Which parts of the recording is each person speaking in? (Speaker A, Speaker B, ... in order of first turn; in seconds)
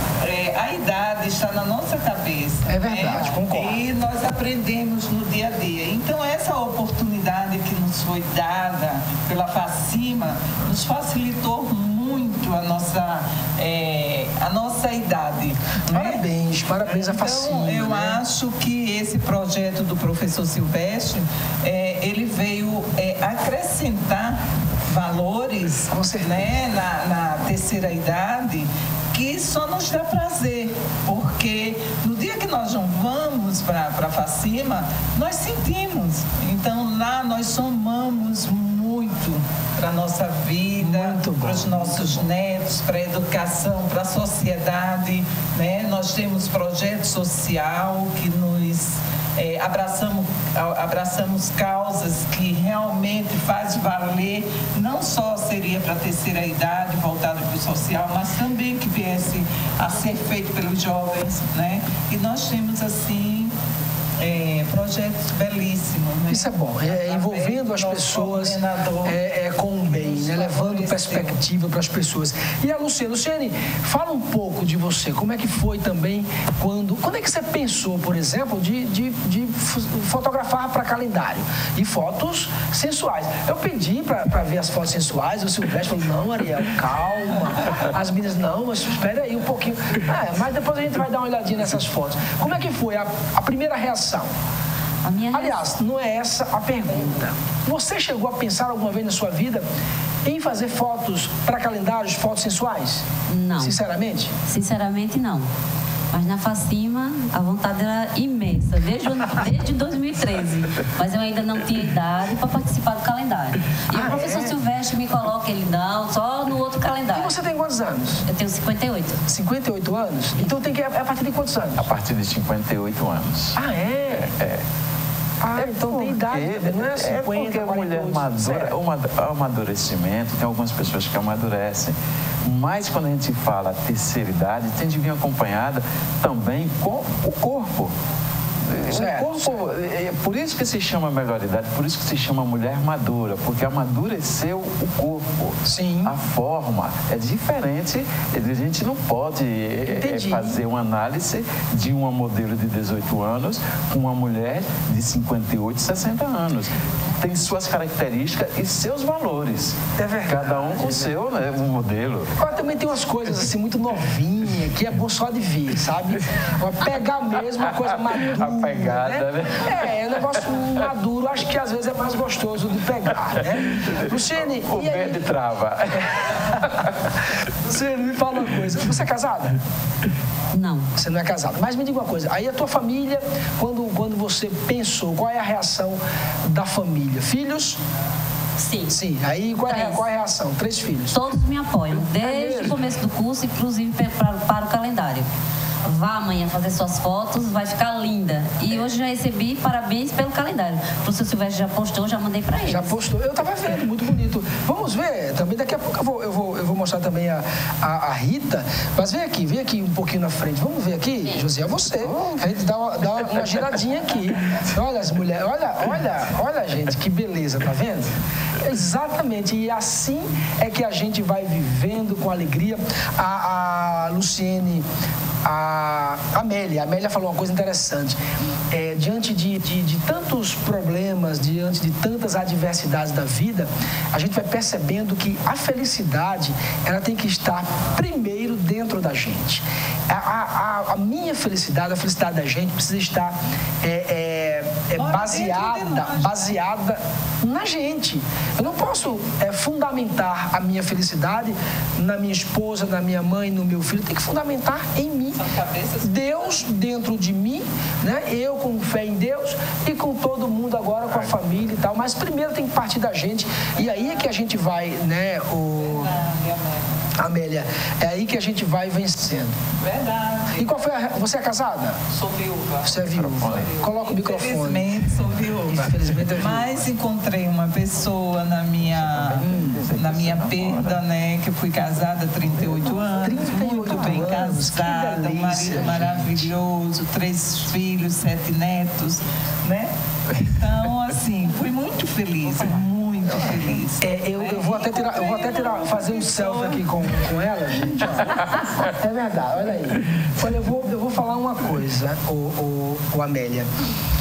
Speaker A: 0.2-16.2, 16.8-63.5, 64.2-69.2, 69.8-71.4, 244.9-246.6, 248.5-249.2, 255.3-256.7, 263.8-264.4, 265.8-267.1, 269.8-270.8, 272.1-273.0, 273.6-297.3
Speaker B: 2.7-3.8, 15.9-18.2, 25.9-26.4, 40.8-42.2, 66.3-94.3, 95.3-99.6, 100.2-103.1, 103.6-104.3, 113.9-114.6, 117.1-118.3, 119.3-121.9, 123.6-124.3, 125.4-128.8, 138.9-139.7, 145.7-146.2, 149.9-150.6, 160.0-161.2, 162.4-175.3, 176.5-176.8, 177.6-179.6, 181.0-187.8, 188.9-191.3, 191.9-192.8, 202.6-224.9, 225.4-228.2, 228.7-255.4, 256.0-266.1, 267.2-269.6, 270.6-272.0, 272.8-274.9, 275.7-276.8, 279.4-279.9, 283.0-286.5, 293.4-303.7
Speaker C: 95.0-95.6, 103.3-103.8, 104.5-105.5, 106.1-117.3, 118.3-119.2, 180.5-180.9, 188.6-188.9, 189.7-190.1, 191.1-195.3, 195.8-202.9
Speaker D: 121.8-123.6, 124.1-124.6, 125.5-137.9, 138.6-162.3, 167.6-170.9, 173.7-176.9, 211.9-212.4, 213.2-213.5, 261.1-261.4, 273.0-273.8, 278.8-281.0